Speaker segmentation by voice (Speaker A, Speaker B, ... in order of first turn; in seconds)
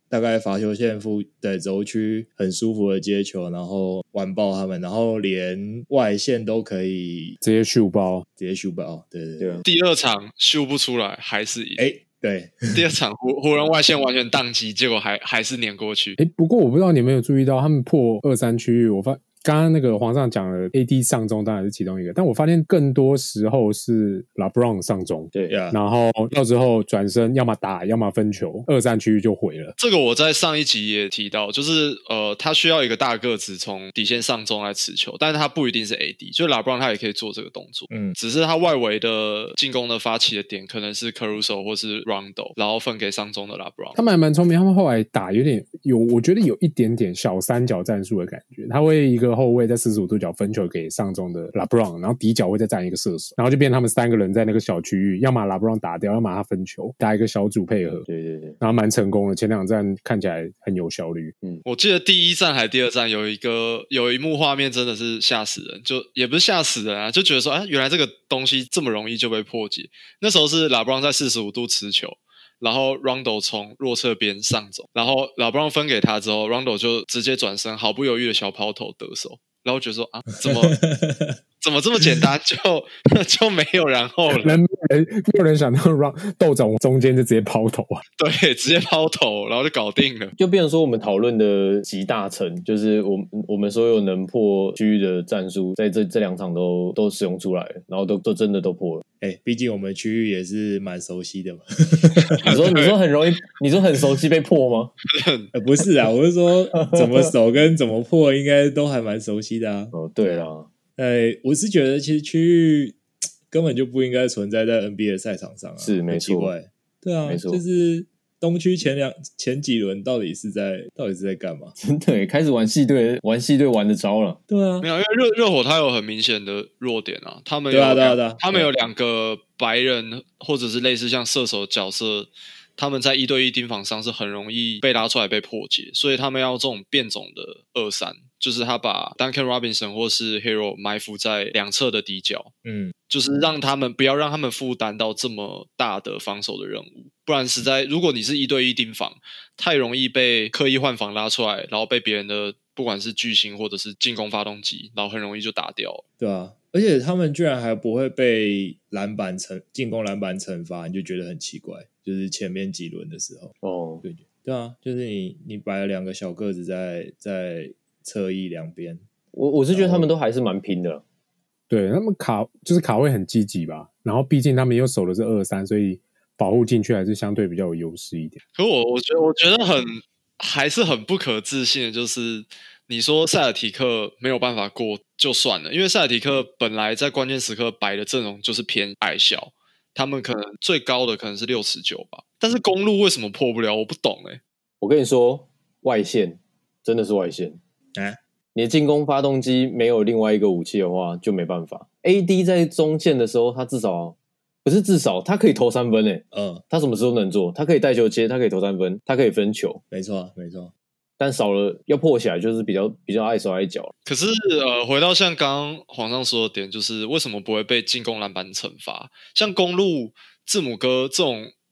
Speaker A: 0.1-7.4, 8.4-9.7, 11.8-12.8, 25.5-25.8, 37.9-38.2, 80.4-81.4, 99.2-102.5, 105.5-121.7, 124.5-124.9, 127.7-128.7, 142.6-142.9, 156.2-169.0, 169.7-170.1, 206.3-206.6, 209.9-210.7
Speaker B: 7.4-8.2, 16.2-29.7, 44.0-58.0, 58.6-61.3, 84.3-88.0, 171.7-178.4
Speaker C: 9.4-9.6, 58.1-58.6, 90.3-99.0, 102.4-104.9, 106.7-107.3, 109.9-110.7, 115.8-116.5, 117.2-117.6, 121.8-124.4, 163.6-164.0, 169.3-171.0, 194.8-197.6, 198.5-209.8, 211.2-213.9
Speaker D: 9.7-11.8, 12.7-16.2, 29.8-44.0, 61.6-80.8, 81.6-84.6, 88.2-90.3, 102.4-102.9, 105.1-105.5, 124.8-142.5, 143.1-156.0, 178.5-194.4, 214.1-221.5